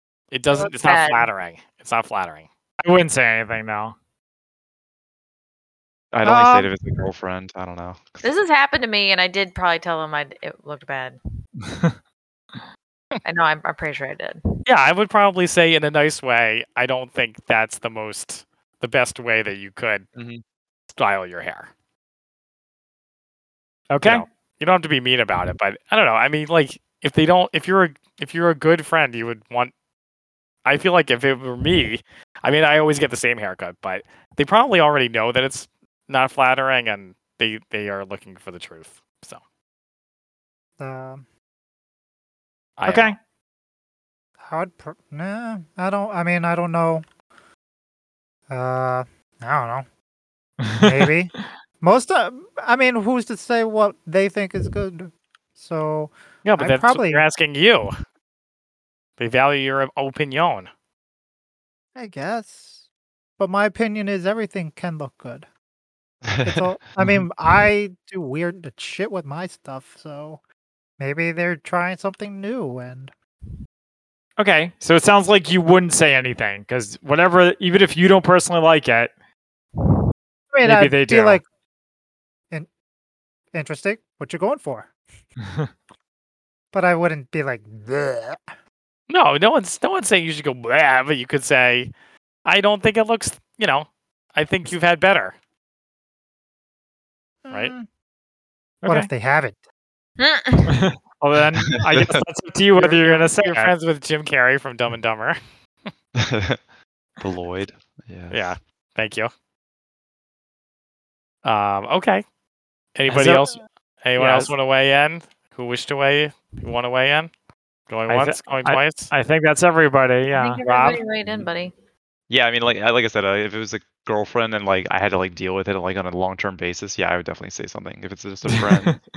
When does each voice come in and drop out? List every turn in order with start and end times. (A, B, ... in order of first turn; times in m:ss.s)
0:00.3-0:02.5 A
0:00.5-0:01.3 B
0:02.8-0:03.9 C
0:06.1-0:08.4 D
0:06.2-0:06.7 E
0:08.2-0:11.2 B
0:11.6-0:11.9 C
0:13.2-0:14.4 B
0:14.7-0:20.1 A
0:20.1-0:20.4 D
0:20.9-0:21.7 A
0:23.9-0:24.2 C
0:24.0-0:29.7 A
0:30.6-0:39.4 A
0:40.8-0:41.2 E
0:42.8-0:43.1 A
0:42.8-0:43.2 C
0:44.4-0:47.0 E
0:48.5-0:49.8 E
0:50.6-0:51.1 C
0:50.8-0:57.2 E
0:56.4-0:57.9 A
0:59.2-1:00.7 A
1:01.9-1:02.8 E
1:03.4-1:05.5 E
1:06.2-1:07.2 D
1:06.4-1:10.4 E
1:11.0-1:13.1 E
1:14.4-1:19.1 C
1:20.5-1:21.4 E
1:20.6-1:21.4 C
1:23.5-1:24.9 E
1:26.7-1:28.5 E
1:29.1-1:31.9 A
1:32.4-1:35.3 A
1:37.4-1:37.9 E
1:38.8-1:39.1 C
1:38.8-1:39.6 E
1:40.2-1:40.8 B
1:40.7-1:43.7 C
1:41.6-1:42.2 D
1:42.8-1:45.9 A
1:46.2-1:46.6 D
1:47.2-1:48.5 D
1:48.3-1:49.3 A
1:51.4-1:52.2 A
1:52.9-1:57.3 A
1:53.1-1:53.6 C
1:54.2-1:54.5 C
1:57.9-1:59.1 A
1:58.1-2:00.6 C
2:00.3-2:01.7 B
2:00.6-2:01.0 A
2:02.3-2:09.0 D
2:08.5-2:09.0 C